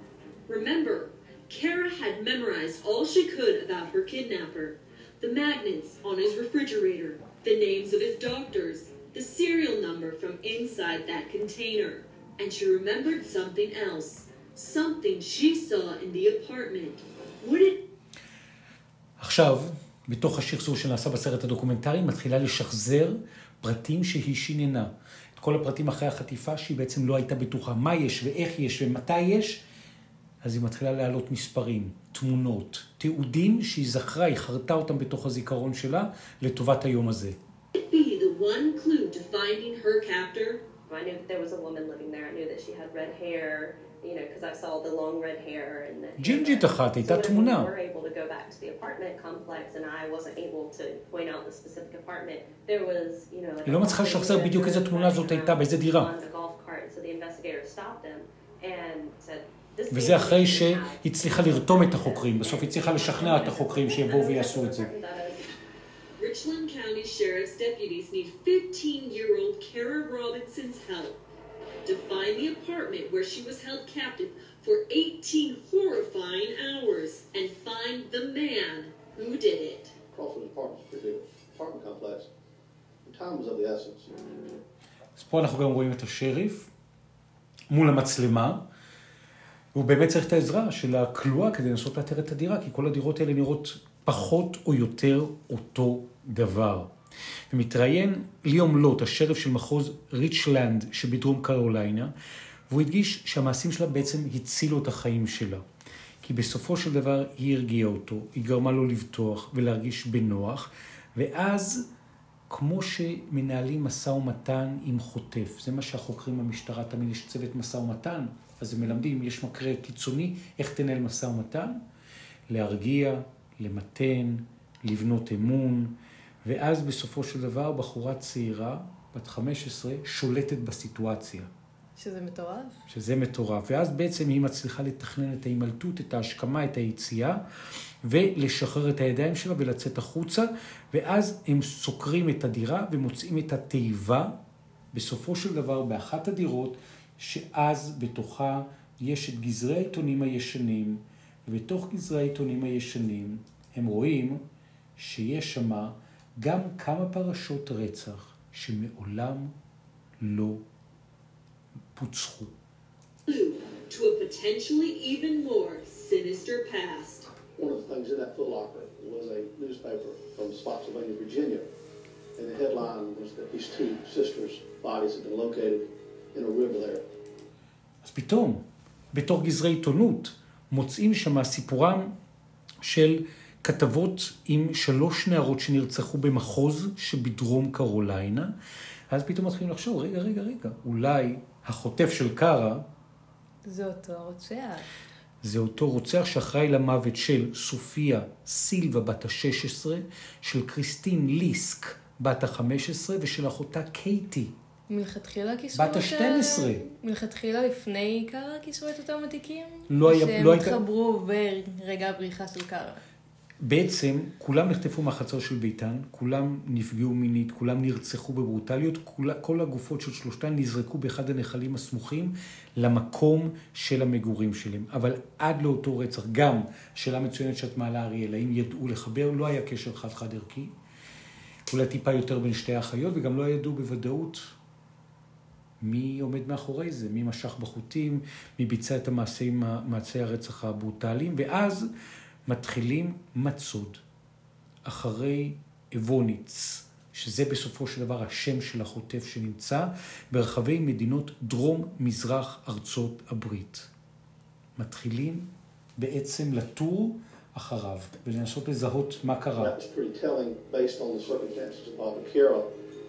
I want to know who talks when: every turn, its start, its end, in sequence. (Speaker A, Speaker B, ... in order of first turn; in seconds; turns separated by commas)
Speaker A: 0.5-17.8, Speaker B: 19.2-29.6, Speaker B: 30.4-37.4, Speaker A: 37.7-40.6, Speaker C: 40.9-65.5, Speaker B: 46.2-47.7, Speaker B: 53.6-56.1, Speaker B: 59.9-64.9, Speaker A: 66.2-71.2, Speaker A: 71.8-79.9, Speaker D: 80.1-82.3, Speaker D: 83.0-84.2, Speaker B: 85.2-86.7, Speaker B: 87.7-88.6, Speaker B: 89.7-96.9, Speaker B: 97.5-102.1, Speaker B: 102.7-105.6, Speaker B: 106.2-111.8, Speaker B: 112.5-121.8, Speaker B: 122.5-131.5, Speaker E: 132.0-132.8, Speaker B: 132.9-137.4, Speaker B: 138.0-144.3, Speaker B: 144.9-154.4, Speaker B: 155.0-159.6, Speaker B: 160.2-160.6, Speaker B: 161.9-162.5, Speaker A: 163.3-167.3, Speaker D: 167.6-171.7, Speaker D: 172.4-177.0, Speaker B: 178.0-178.6, Speaker B: 179.1-182.1, Speaker B: 182.8-188.5, Speaker B: 189.1-192.8, Speaker E: 193.7-194.9, Speaker B: 195.4-204.5, Speaker E: 204.9-213.0, Speaker B: 205.8-206.9, Speaker B: 209.9-210.8, Speaker B: 213.6-230.7, Speaker B: 231.7-234.5, Speaker B: 235.8-241.9, Speaker B: 242.5-244.0, Speaker B: 244.8-253.9, Speaker B: 254.8-259.7, Speaker D: 259.6-262.7